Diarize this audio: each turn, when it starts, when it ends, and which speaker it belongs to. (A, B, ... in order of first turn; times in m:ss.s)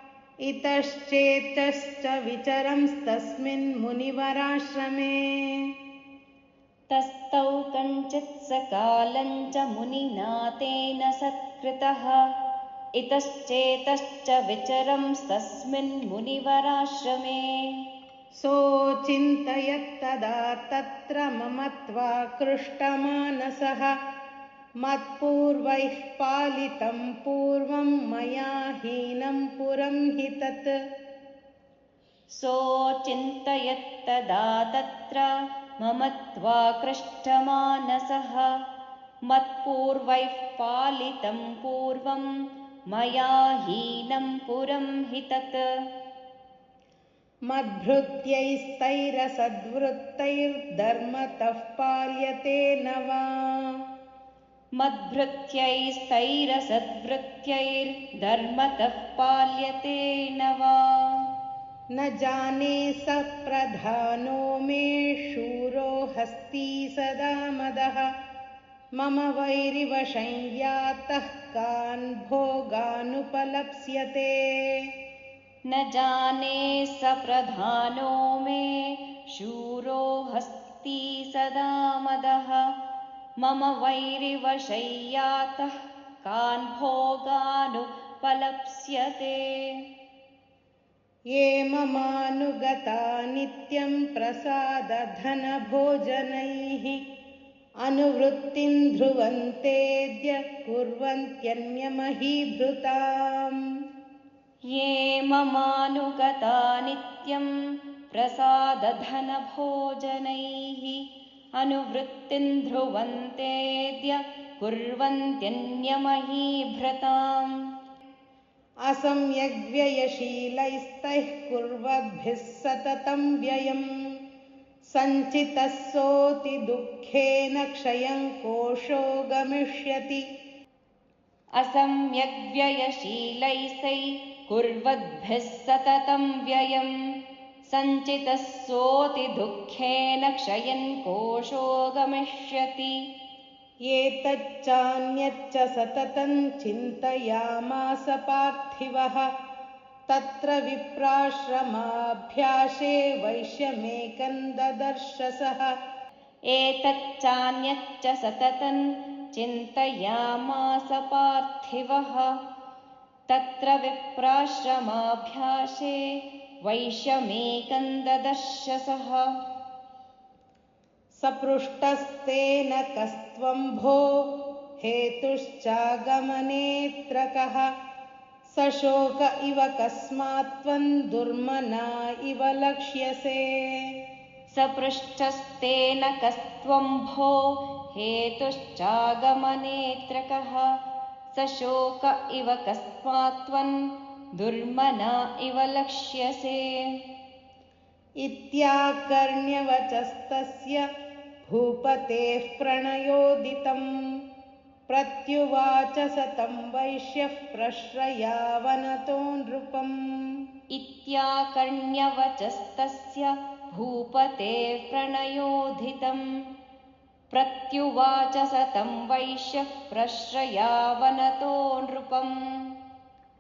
0:00.4-0:05.7 A
0:06.9-0:12.2 B
0:13.0-0:17.8 B
0:18.4-0:23.9 A
0:24.8-0:30.7 A
0:32.3-0:38.5 B
0:39.3-0:42.3 B
0:42.9-0:45.6 B
0:47.5-0:53.7 A
0:54.8-1:01.2 B
1:01.9-1:08.1 A
1:09.0-1:14.8 A
1:15.7-1:22.7 B
1:23.4-1:29.8 B
1:31.3-1:37.0 A
1:37.8-1:43.6 A
1:44.7-1:47.5 B
1:48.1-1:51.0 B
1:51.6-1:57.5 B
1:58.9-2:03.8 A
2:04.9-2:10.2 A
2:11.6-2:16.9 B
2:17.7-2:23.0 B
2:23.8-2:29.3 A
2:30.1-2:35.7 A
2:36.5-2:42.3 B
2:43.3-2:49.3 B
2:51.1-2:54.2 A
2:54.8-2:57.7 A
2:58.4-3:03.8 A
3:04.5-3:10.7 B
3:11.3-3:13.8 B
3:14.4-3:17.0 B
3:18.2-3:20.8 A
3:21.4-3:23.9 A
3:24.9-3:30.3 A
3:30.7-3:36.3 B
3:37.3-3:42.8 B